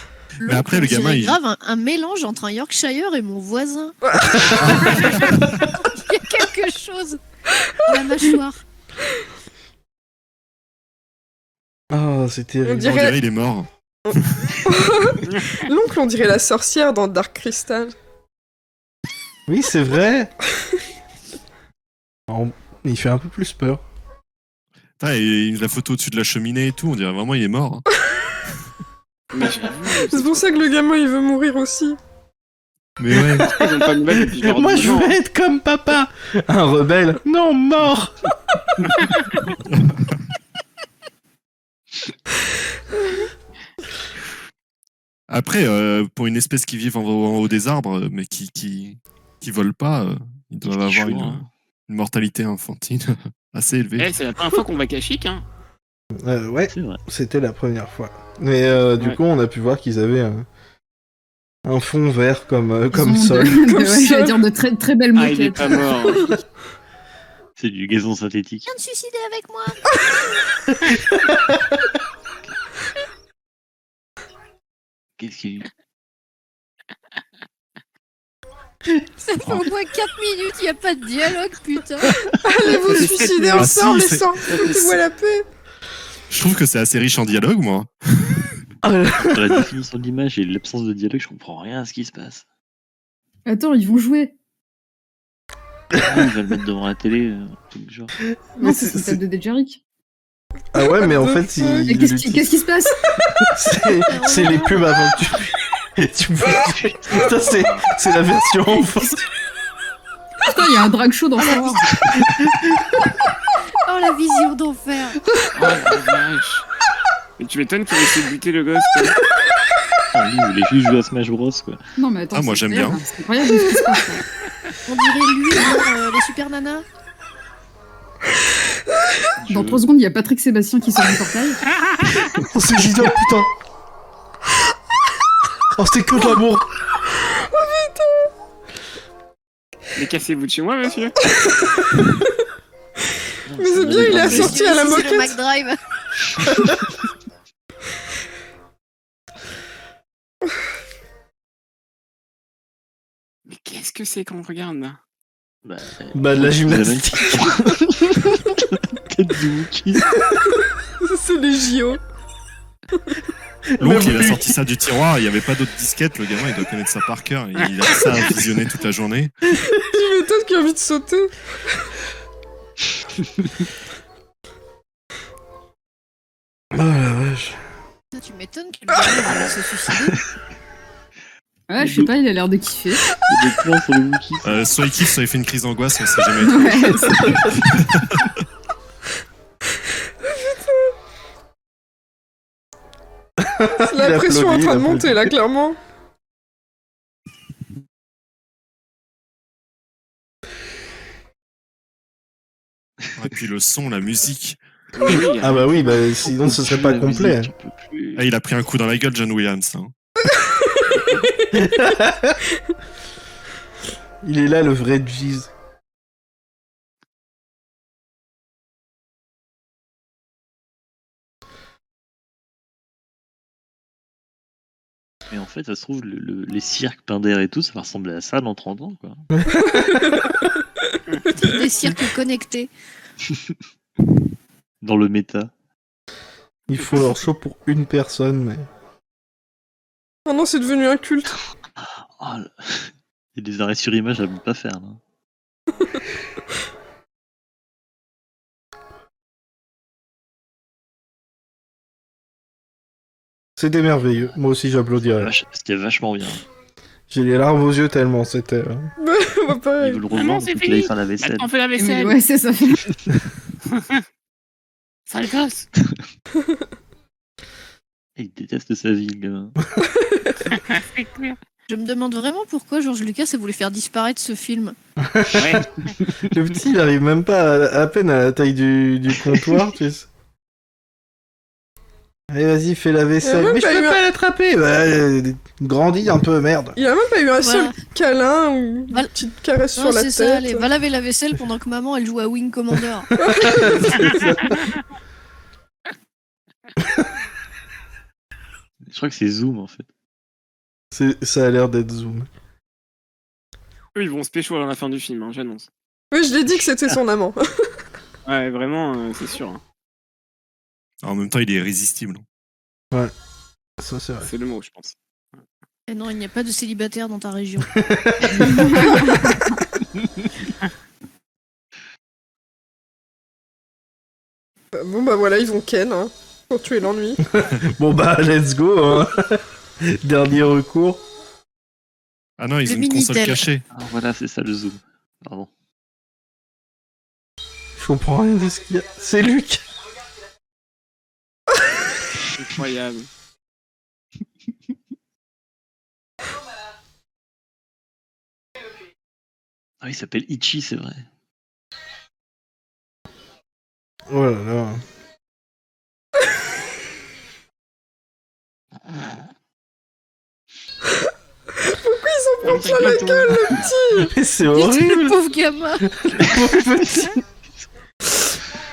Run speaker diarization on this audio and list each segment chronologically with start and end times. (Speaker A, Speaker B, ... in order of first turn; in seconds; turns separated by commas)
Speaker A: 0.4-1.4, Speaker B: 0.4-7.2, Speaker C: 4.0-5.2, Speaker A: 4.6-5.6, Speaker B: 7.8-8.6, Speaker D: 11.9-12.9, Speaker C: 12.6-13.2, Speaker A: 12.8-13.7, Speaker C: 14.0-17.9, Speaker D: 19.5-20.3, Speaker D: 22.3-23.8, Speaker A: 25.0-27.8, Speaker E: 29.3-30.6, Speaker C: 29.4-32.0, Speaker A: 33.0-33.5, Speaker D: 33.1-38.3, Speaker E: 33.4-35.2, Speaker A: 39.7-40.1, Speaker A: 45.3-54.1, Speaker F: 50.6-51.5, Speaker E: 54.0-55.4, Speaker D: 56.1-60.5, Speaker F: 56.7-57.0, Speaker D: 61.6-63.6, Speaker G: 62.9-65.9, Speaker C: 63.6-64.4, Speaker E: 65.2-66.3, Speaker F: 67.6-68.7, Speaker B: 68.7-69.8, Speaker D: 70.9-71.6, Speaker F: 75.2-75.7, Speaker B: 79.2-82.1, Speaker C: 82.4-85.4, Speaker E: 82.8-83.8, Speaker A: 83.5-84.4, Speaker F: 84.5-85.0, Speaker A: 86.3-88.3, Speaker D: 88.8-89.7, Speaker F: 89.2-92.4, Speaker G: 93.5-94.3, Speaker D: 95.9-96.3, Speaker F: 96.0-98.1, Speaker D: 98.5-99.2, Speaker G: 98.6-99.8, Speaker D: 100.7-102.6, Speaker C: 100.8-101.9, Speaker G: 101.8-103.0, Speaker D: 103.5-109.2, Speaker B: 104.0-104.9, Speaker F: 106.6-107.9, Speaker G: 110.5-111.9, Speaker B: 113.8-115.2, Speaker E: 115.5-116.6, Speaker E: 117.4-119.2, Speaker F: 120.1-121.8, Speaker G: 122.0-124.2, Speaker A: 122.3-123.0, Speaker B: 124.8-126.8, Speaker F: 129.4-129.8, Speaker G: 129.5-131.6, Speaker D: 132.4-133.5, Speaker D: 135.8-136.7, Speaker C: 137.3-138.3, Speaker E: 139.9-141.1, Speaker F: 143.5-144.7, Speaker C: 143.5-145.4, Speaker B: 144.1-145.8, Speaker E: 153.5-155.0, Speaker F: 155.6-160.1, Speaker D: 156.1-157.8, Speaker C: 161.0-162.0, Speaker D: 163.7-164.6, Speaker A: 163.8-169.3, Speaker C: 169.8-171.3, Speaker D: 176.7-177.6, Speaker B: 178.1-180.1, Speaker F: 179.3-180.2, Speaker G: 181.7-183.1, Speaker F: 181.8-182.1, Speaker F: 183.3-184.6, Speaker A: 184.4-188.3, Speaker G: 186.4-187.4, Speaker C: 190.2-190.9, Speaker D: 193.4-195.3, Speaker C: 193.8-195.8, Speaker A: 203.2-204.6, Speaker E: 204.9-206.0, Speaker D: 205.4-207.5, Speaker F: 206.2-208.3, Speaker A: 208.2-209.9, Speaker C: 210.2-211.7, Speaker D: 211.5-212.4, Speaker D: 214.2-215.5, Speaker F: 225.3-229.3, Speaker D: 229.3-230.3, Speaker C: 229.6-230.3, Speaker B: 231.3-232.7, Speaker F: 234.8-235.5, Speaker D: 236.7-238.7, Speaker C: 240.3-241.3, Speaker F: 241.8-245.0, Speaker D: 253.6-255.3, Speaker F: 255.1-256.4, Speaker D: 257.1-258.9, Speaker C: 259.0-260.0, Speaker F: 259.8-261.5, Speaker E: 260.1-262.2, Speaker G: 261.8-262.9, Speaker E: 263.7-264.0, Speaker E: 265.1-265.7, Speaker F: 268.2-269.6, Speaker C: 270.0-270.4, Speaker E: 270.5-271.4, Speaker B: 271.7-274.8, Speaker D: 275.0-275.6, Speaker E: 275.3-275.9, Speaker D: 276.2-280.1, Speaker D: 282.3-286.8, Speaker C: 283.2-284.0, Speaker C: 286.8-290.7, Speaker B: 287.4-287.8, Speaker B: 289.8-293.1, Speaker C: 293.1-294.2, Speaker D: 293.3-294.6, Speaker F: 298.9-299.9, Speaker D: 300.9-302.3, Speaker E: 303.9-305.7, Speaker C: 306.1-307.4, Speaker E: 308.2-309.6, Speaker A: 311.0-312.2, Speaker D: 313.8-314.3, Speaker E: 314.2-314.9, Speaker B: 315.9-317.7, Speaker D: 317.7-319.1, Speaker G: 318.6-318.9, Speaker C: 324.7-327.2, Speaker D: 327.3-331.0, Speaker A: 332.4-333.6, Speaker B: 332.6-333.4, Speaker F: 333.7-335.5, Speaker D: 337.8-339.6, Speaker E: 342.4-343.1, Speaker F: 349.8-351.0, Speaker D: 354.1-354.8, Speaker C: 361.6-364.1, Speaker E: 362.4-363.7, Speaker D: 364.0-365.2, Speaker B: 364.5-365.9, Speaker D: 365.8-367.2